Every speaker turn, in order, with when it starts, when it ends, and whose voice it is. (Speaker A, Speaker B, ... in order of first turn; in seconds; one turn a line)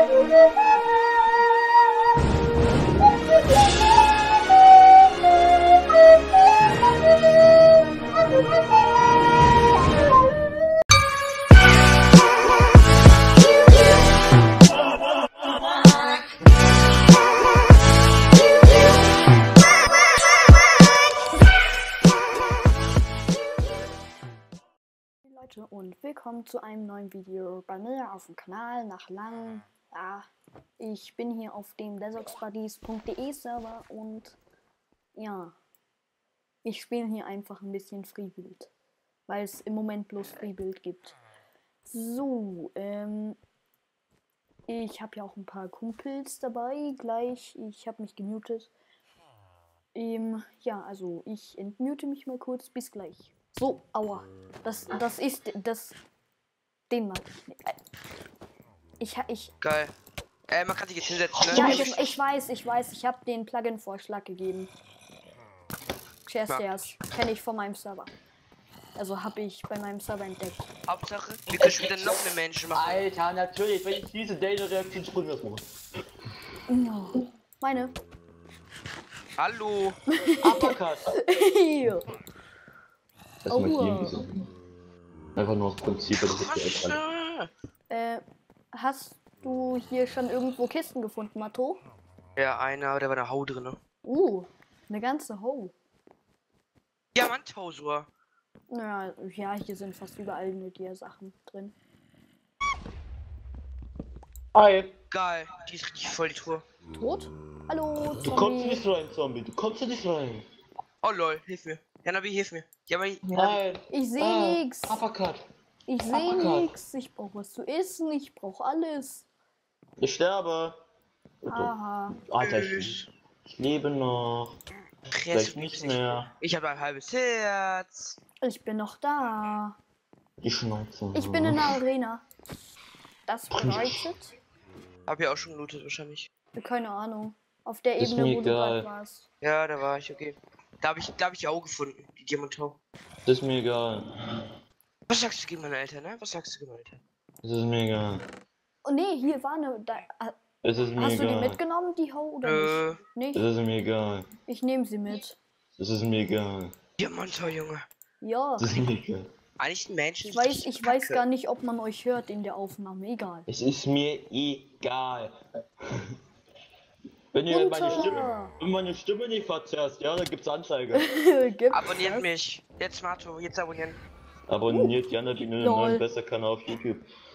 Speaker A: 25.3-30.3
Speaker A: 30.8-34.4
Speaker A: 35.1-35.5
Speaker A: 36.6-38.7
Speaker A: 39.3-41.1
Speaker A: 41.8-43.4
Speaker A: 44.7-48.7
Speaker A: 49.9-56.0
Speaker A: 56.9-57.8
Speaker A: 59.0-59.5
Speaker B: 59.6-59.9
Speaker B: 60.5-62.2
Speaker C: 61.4-61.9
Speaker A: 61.5-64.7
Speaker A: 66.2-68.1
Speaker A: 69.0-70.7
Speaker B: 70.9-73.0
Speaker C: 71.5-72.2
Speaker C: 72.7-75.7
Speaker A: 76.7-77.9
Speaker B: 79.4-80.0
Speaker A: 80.1-82.1
Speaker C: 80.4-81.1
Speaker C: 83.4-84.3
Speaker A: 83.5-84.1
Speaker C: 85.3-87.0
Speaker B: 86.2-87.5
Speaker A: 87.9-88.2
Speaker A: 88.7-91.8
Speaker B: 92.4-93.8
Speaker A: 94.0-95.7
Speaker B: 97.1-98.1
Speaker A: 98.7-101.7
Speaker C: 104.5-104.9
Speaker B: 105.1-106.6
Speaker A: 106.9-108.8
Speaker C: 108.2-110.4
Speaker B: 111.0-113.6
Speaker C: 113.3-115.4
Speaker A: 113.9-115.0
Speaker A: 115.9-119.2
Speaker C: 116.1-116.7
Speaker C: 120.0-120.8
Speaker C: 121.5-121.7
Speaker A: 121.5-122.2
Speaker C: 122.2-124.6
Speaker B: 122.4-123.1
Speaker B: 125.1-128.2
Speaker C: 125.3-126.3
Speaker A: 128.4-129.8
Speaker C: 130.4-131.8
Speaker A: 131.1-132.2
Speaker A: 133.3-134.3
Speaker C: 133.5-134.1
Speaker B: 135.1-136.3
Speaker A: 136.6-139.2
Speaker C: 138.0-138.9
Speaker B: 139.4-142.8
Speaker C: 143.2-144.1
Speaker B: 145.1-147.0
Speaker C: 147.4-148.2
Speaker A: 148.8-150.3
Speaker C: 150.6-151.6
Speaker A: 151.0-153.4
Speaker B: 152.4-153.0
Speaker C: 153.3-154.3
Speaker A: 154.5-155.4
Speaker C: 155.8-156.7
Speaker B: 157.0-157.8
Speaker A: 158.2-158.7
Speaker C: 158.6-159.3
Speaker B: 159.6-161.2
Speaker A: 160.2-163.4
Speaker C: 163.5-165.3
Speaker C: 165.8-166.1
Speaker C: 167.3-171.0
Speaker A: 167.5-168.5
Speaker A: 170.9-172.3
Speaker B: 171.7-174.0
Speaker C: 174.5-177.0
Speaker A: 174.7-174.9
Speaker A: 175.6-176.0